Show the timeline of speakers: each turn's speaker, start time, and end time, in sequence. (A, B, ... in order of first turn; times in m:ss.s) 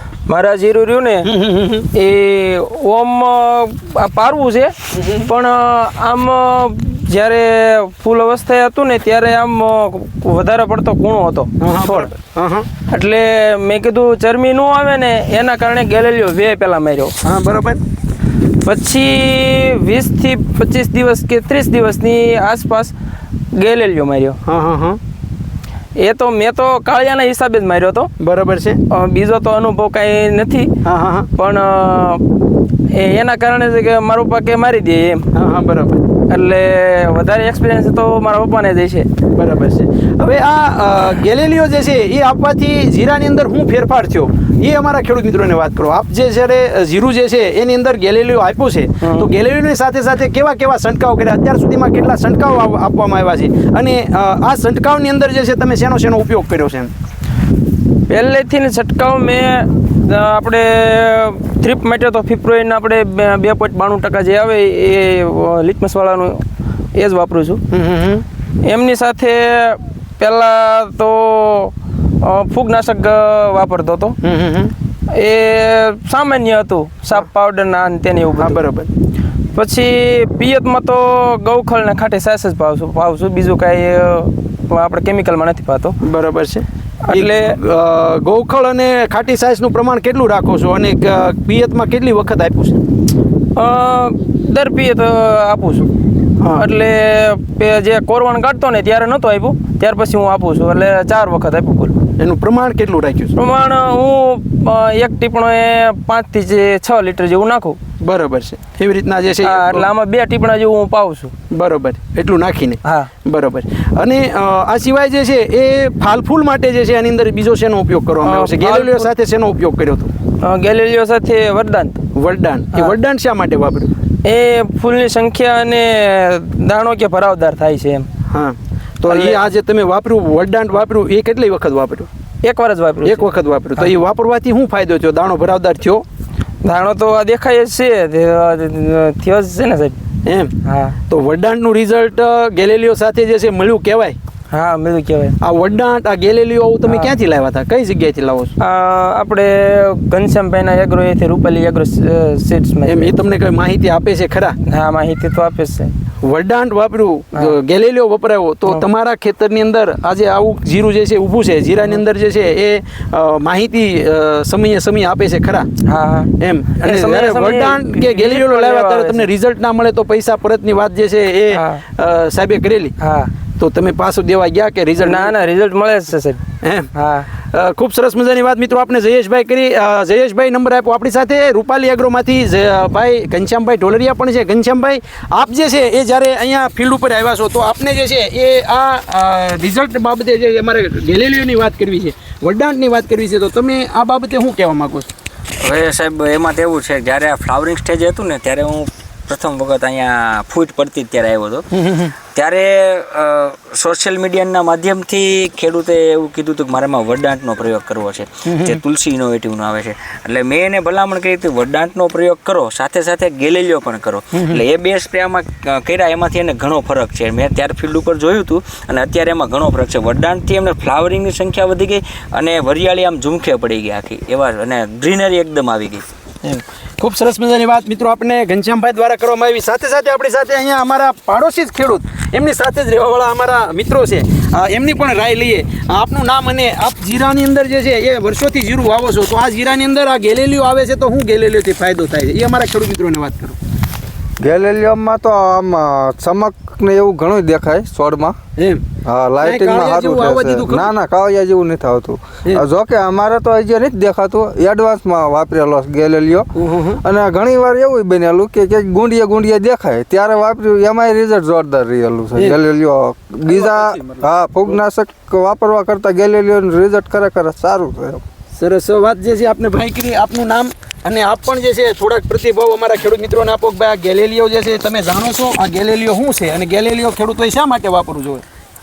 0:00.3-0:01.3 A
0:01.3-0:01.9 B
0:01.9-0:04.8 A
0:04.9-0:05.2 B
0:05.3-0:12.1 A
0:11.6-0:12.7 B
0:12.9-0:17.2 A
0:17.2-0:17.8 B
0:18.6-0:22.9 A
0:23.6-0:24.4 A
0:24.4-0:25.0 B
0:26.0-0:28.1 A
0:28.2-0:28.8 B
0:28.9-0:30.7 A
0:30.8-0:31.3 B
0:31.4-0:32.2 A
0:32.9-0:35.3 A
0:35.3-0:36.0 B
0:36.3-0:39.1 A
0:39.3-0:56.9 B
0:49.0-0:49.3 A
0:58.1-1:06.4 A
1:07.0-1:07.6 A
1:07.7-1:08.2 B
1:08.6-1:14.2 A
1:14.2-1:14.7 B
1:15.1-1:18.6 A
1:18.4-1:18.9 B
1:19.6-1:26.0 A
1:26.0-1:32.8 B
1:27.1-1:27.6 A
1:33.6-1:35.9 A
1:36.6-1:42.0 A
1:42.2-1:43.3 B
1:43.4-1:47.8 A
1:48.0-1:49.9 B
1:49.4-1:51.3 A
1:51.5-2:00.1 B
1:58.2-1:59.1 A
2:00.4-2:02.0 A
2:02.1-2:03.9 B
2:04.2-2:08.1 A
2:08.3-2:12.1 B
2:09.1-2:09.4 A
2:12.4-2:13.3 A
2:13.0-2:16.0 B
2:16.6-2:20.0 A
2:20.2-2:20.5 B
2:20.6-2:21.0 A
2:21.1-2:24.2 B
2:24.5-2:25.4 A
2:25.4-2:28.5 B
2:26.9-2:27.1 A
2:28.6-2:33.1 A
2:32.9-2:34.6 B
2:34.7-2:35.9 A
2:36.2-2:45.7 B
2:45.8-2:49.3 A
2:46.4-2:52.9 B
2:51.5-2:51.8 A
2:53.0-2:53.3 A
2:53.6-2:55.4 B
2:55.0-2:56.4 A
2:56.6-2:56.9 B
2:56.9-2:57.3 A
2:57.5-3:15.1 B
3:15.6-3:21.6 C
3:21.7-3:22.1 B
3:22.3-3:46.0 C
3:28.4-3:28.8 B
3:34.3-3:34.6 B
3:46.4-4:03.6 B
4:04.4-4:08.4 D
4:08.6-4:08.8 B
4:09.0-4:16.5 D
4:09.4-4:10.9 B
4:16.6-4:17.0 B
4:17.0-4:28.2 D
4:22.3-4:22.6 B
4:23.5-4:24.8 B
4:28.6-4:38.4 B